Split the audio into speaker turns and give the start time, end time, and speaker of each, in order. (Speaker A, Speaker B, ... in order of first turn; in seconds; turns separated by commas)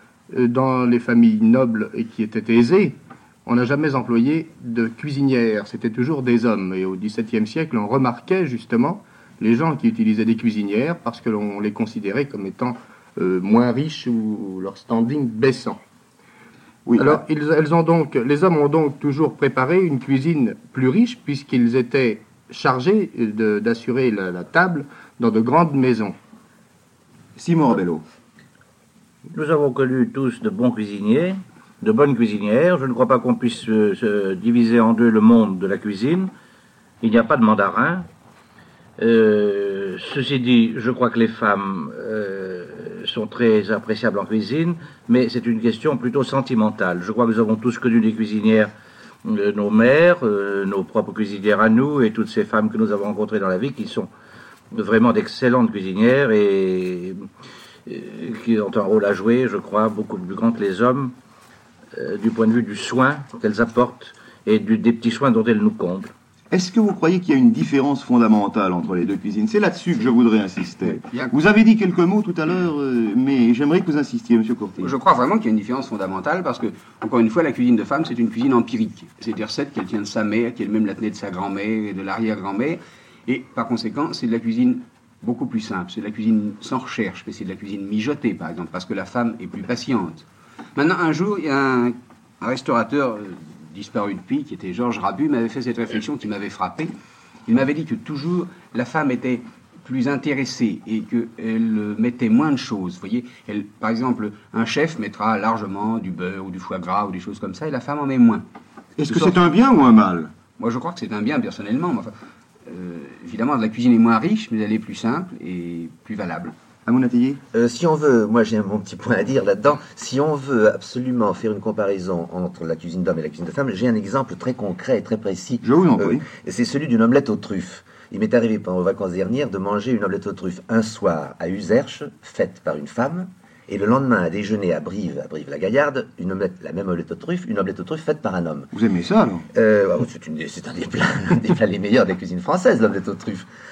Speaker A: 0.3-15.8, Speaker B: 16.9-17.2, Speaker A: 17.0-26.1, Speaker B: 27.4-28.0, Speaker C: 29.3-36.3, Speaker C: 37.0-38.0, Speaker C: 39.0-48.7, Speaker C: 49.2-54.1, Speaker C: 54.7-57.2, Speaker C: 57.9-61.1, Speaker C: 62.0-66.1, Speaker B: 66.5-74.9, Speaker D: 74.8-96.9, Speaker D: 97.5-108.5, Speaker B: 109.0-110.3, Speaker D: 109.1-109.4, Speaker D: 110.6-112.1, Speaker D: 112.7-116.5, Speaker B: 116.9-117.4, Speaker E: 117.5-138.7, Speaker B: 125.6-126.3, Speaker B: 138.7-139.5, Speaker E: 139.5-143.5